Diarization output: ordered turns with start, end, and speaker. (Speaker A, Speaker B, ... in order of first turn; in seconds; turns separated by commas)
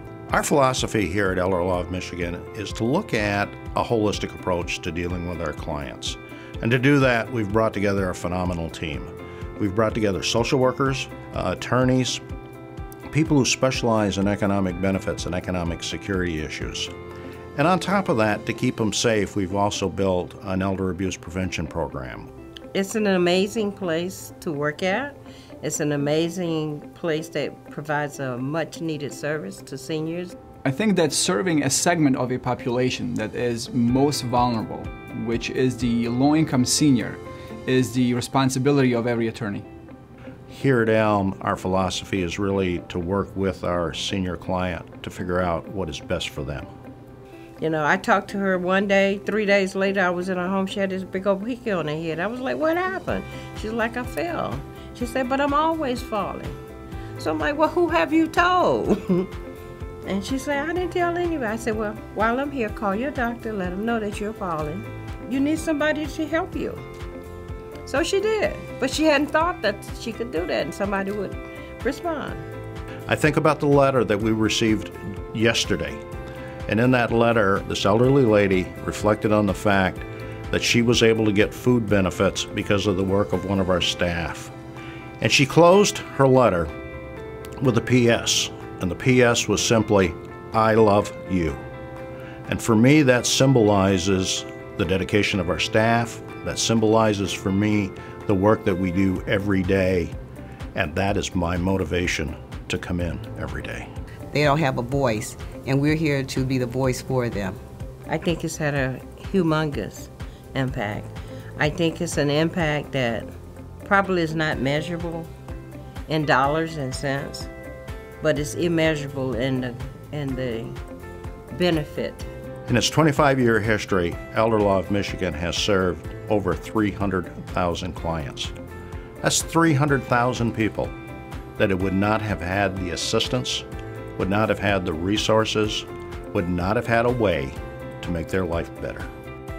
Speaker A: 0.3-12.2, Speaker A: 13.1-16.9, Speaker A: 17.6-22.3, Speaker B: 22.7-30.3, Speaker C: 30.6-39.6, Speaker A: 40.5-46.7, Speaker B: 47.6-56.5, Speaker B: 57.2-59.3, Speaker B: 60.0-66.8, Speaker B: 67.8-72.4, Speaker A: 73.1-76.0, Speaker A: 76.7-84.5, Speaker A: 85.2-86.7, Speaker A: 87.6-91.6, Speaker A: 92.5-100.1, Speaker A: 100.7-103.9, Speaker D: 104.3-107.6, Speaker B: 108.1-113.3, Speaker B: 113.8-115.3, Speaker B: 116.1-117.5, Speaker B: 118.2-120.8, Speaker B: 121.5-122.3, Speaker A: 122.7-128.5, Speaker A: 129.2-130.9, Speaker A: 131.6-133.7, Speaker A: 134.2-139.1